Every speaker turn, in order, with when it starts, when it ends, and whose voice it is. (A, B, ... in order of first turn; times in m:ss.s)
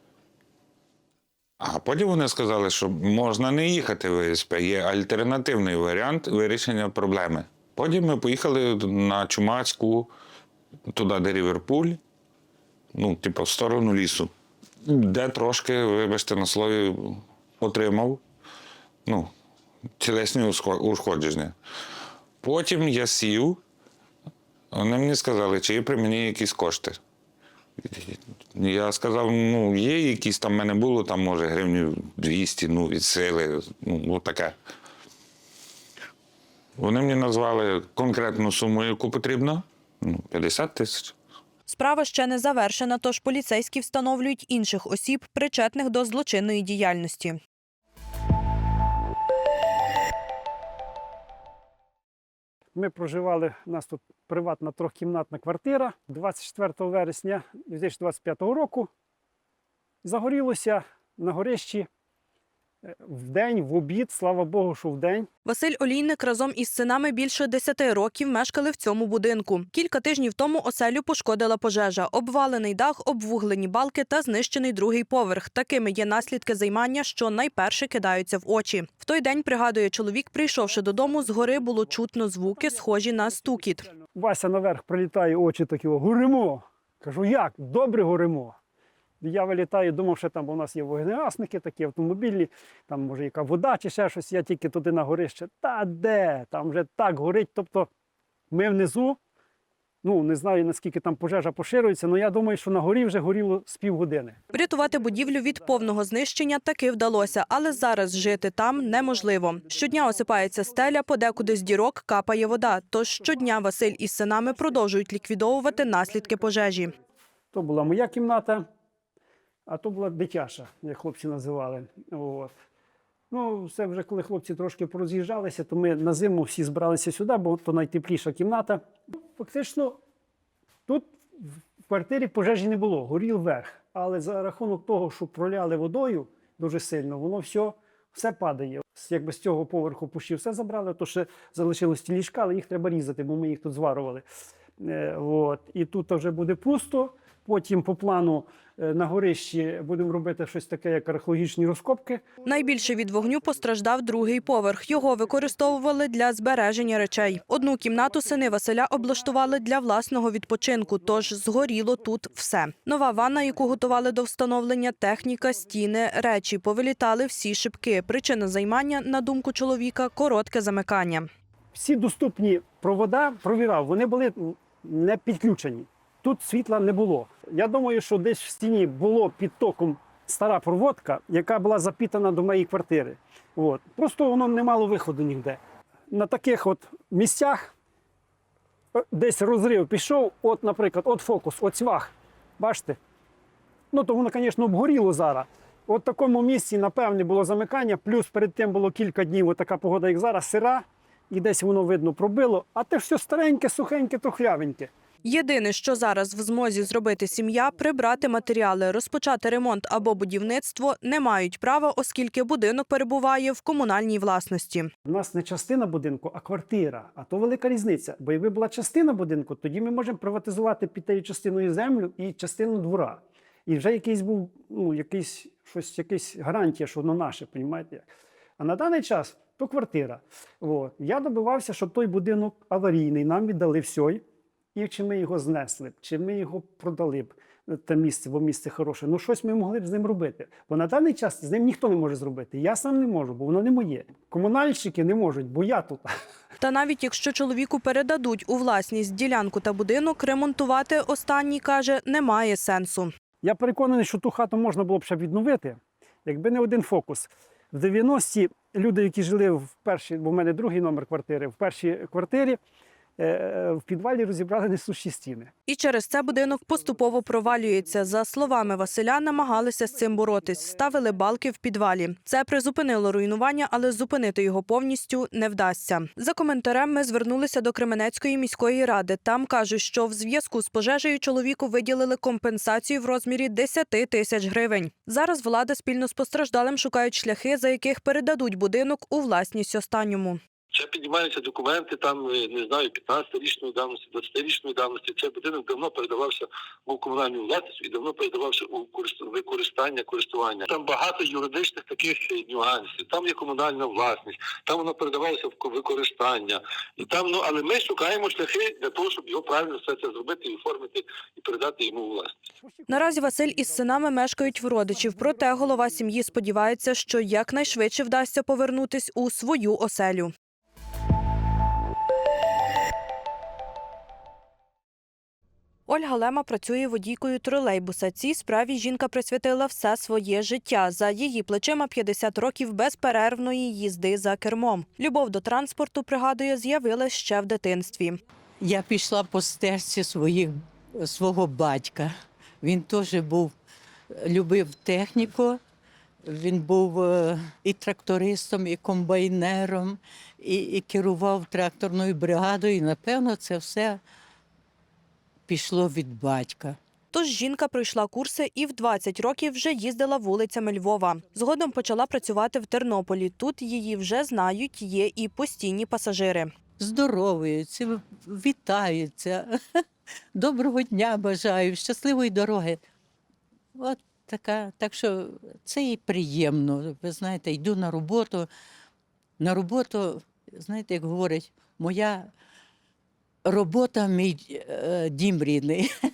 0:01.6-0:10.1 A
0:10.9-0:12.0 A
0:12.9-0:14.3 A
0:14.8-0:18.2 A
0:19.0-0:19.3 A
0:20.0-0:21.5 A
0:22.4-0:23.6 A
0:24.7-0:27.0 A
0:27.8-0:34.6 A
0:36.8-0:41.1 A
0:41.7-0:47.4 B
0:52.7-0:58.9 C
1:00.0-1:01.9 C
1:02.8-1:05.3 C
1:05.4-1:23.9 B
1:20.7-1:22.0 C
1:22.5-1:28.6 C
1:29.2-1:37.9 C
1:38.5-1:39.2 C
1:40.0-1:46.0 C
1:44.5-1:56.9 B
1:47.1-1:51.7 C
1:52.4-1:54.9 C
1:55.6-1:58.7 C
1:59.7-2:02.5 C
2:03.3-2:08.8 C
2:09.4-2:10.0 C
2:10.9-2:24.2 C
2:24.8-2:33.4 C
2:32.4-2:51.3 B
2:34.9-2:35.7 C
2:37.8-2:38.6 C
2:41.2-2:41.7 C
2:43.1-2:44.0 C
2:51.7-3:07.7 C
3:09.0-3:13.0 C
3:13.9-3:24.9 C
3:25.2-3:34.9 B
3:35.0-3:48.1 C
3:48.6-3:54.2 C
3:54.7-4:06.0 C
4:06.6-4:13.1 B
4:13.4-4:22.6 C
4:23.2-4:25.5 C
4:25.7-4:50.4 B
4:26.5-4:31.1 C
4:50.7-5:12.4 D
5:12.6-5:16.3 C
5:12.9-5:20.3 B
5:16.8-5:17.8 C
5:25.9-5:38.2 B
5:38.6-5:43.5 E
5:44.2-5:45.6 E
5:46.2-5:54.0 E
5:55.5-5:56.8 E
5:57.1-6:06.5 B
6:06.8-6:09.8 E
6:10.3-6:12.8 E
6:13.7-6:18.5 E
6:19.4-6:22.3 E
6:23.4-6:25.9 E